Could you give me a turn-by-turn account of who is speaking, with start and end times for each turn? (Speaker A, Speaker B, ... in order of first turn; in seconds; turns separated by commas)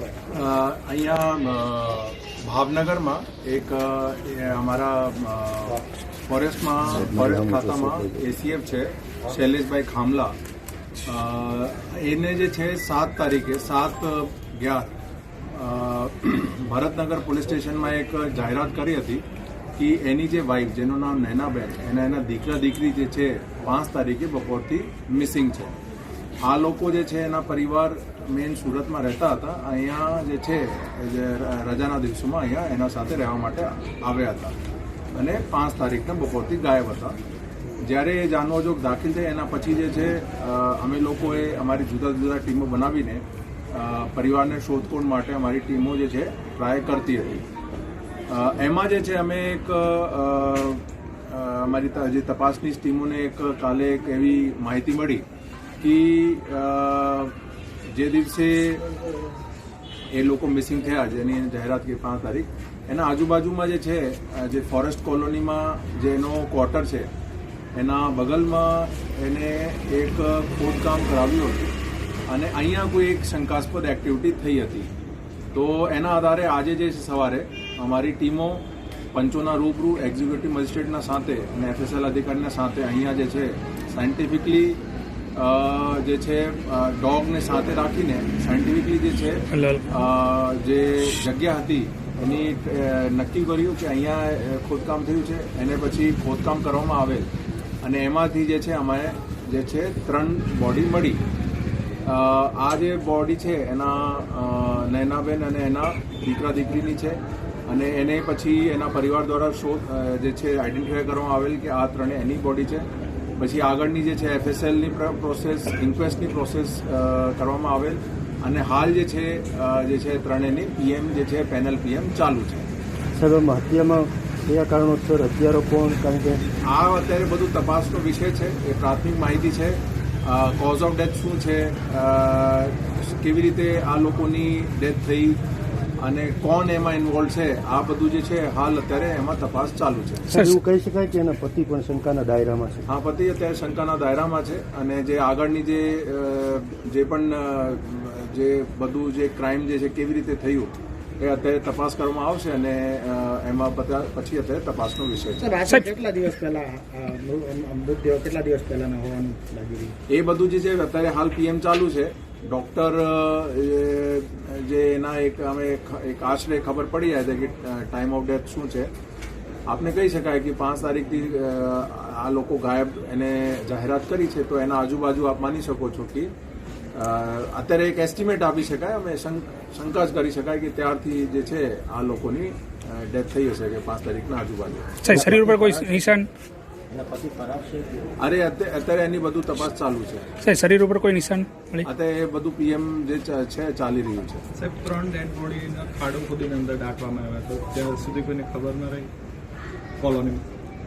Speaker A: 0.3-10.3, Speaker B: 6.9-8.2, Speaker A: 11.0-15.0, Speaker A: 15.5-19.2, Speaker A: 19.8-25.8, Speaker A: 26.4-34.5, Speaker A: 35.1-37.2, Speaker A: 37.8-47.4, Speaker A: 48.3-55.2, Speaker A: 55.8-58.9, Speaker A: 60.1-67.1, Speaker A: 67.7-71.8, Speaker A: 72.3-74.9, Speaker A: 75.5-84.8, Speaker A: 85.3-97.3, Speaker C: 89.5-89.8, Speaker A: 97.8-101.2, Speaker A: 102.0-112.9, Speaker A: 113.4-122.7, Speaker B: 123.2-126.4, Speaker A: 126.6-135.4, Speaker A: 136.0-140.4, Speaker B: 140.3-142.8, Speaker A: 142.9-155.6, Speaker D: 155.4-159.9, Speaker A: 160.1-168.9, Speaker A: 169.7-176.3, Speaker A: 176.9-185.1, Speaker C: 185.0-186.3, Speaker D: 186.9-187.9, Speaker A: 188.2-190.3, Speaker C: 190.4-191.9, Speaker A: 191.8-194.5, Speaker E: 194.5-199.1, Speaker E: 200.0-200.4